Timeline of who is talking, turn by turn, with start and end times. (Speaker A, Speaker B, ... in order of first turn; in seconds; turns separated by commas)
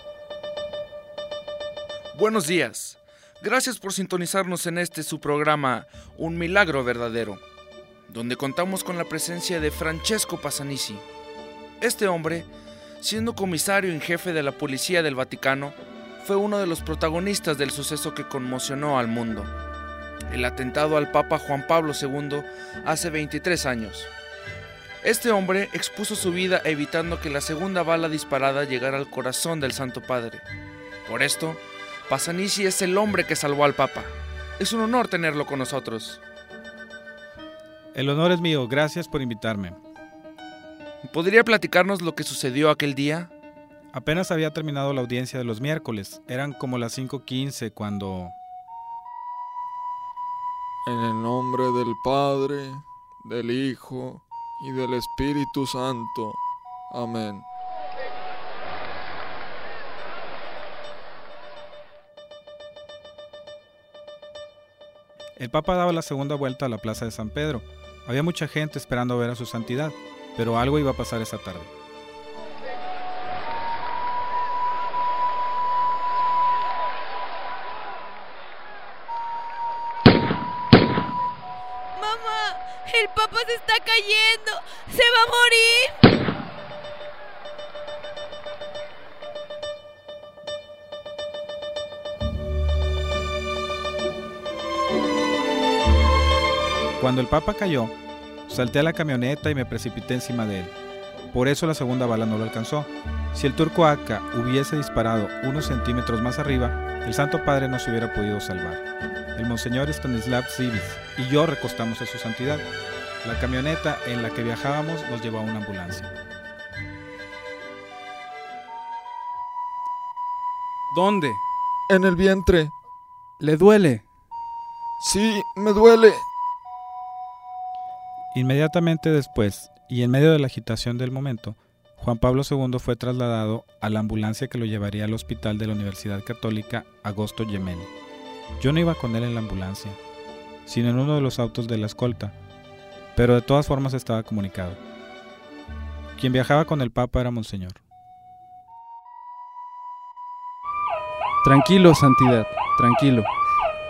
Speaker A: 2.1-7.4, Speaker A: 8.1-11.0, Speaker A: 11.8-12.5, Speaker A: 13.0-19.5, Speaker A: 20.3-24.1, Speaker A: 25.0-30.4, Speaker A: 31.1-36.2, Speaker B: 37.9-39.8, Speaker A: 41.1-43.3, Speaker B: 43.9-48.4, Speaker C: 50.9-57.5, Speaker B: 65.4-71.7, Speaker D: 82.0-85.9, Speaker B: 97.0-98.0, Speaker B: 98.5-100.7, Speaker B: 101.3-108.8, Speaker B: 109.4-112.7, Speaker B: 113.2-116.1, Speaker E: 120.9-121.4, Speaker C: 121.9-122.7, Speaker E: 123.4-124.0, Speaker C: 125.0-126.3, Speaker B: 128.3-137.9, Speaker B: 138.6-140.0, Speaker B: 140.7-142.3, Speaker B: 143.2-144.8, Speaker B: 146.2-147.8, Speaker E: 151.4-153.3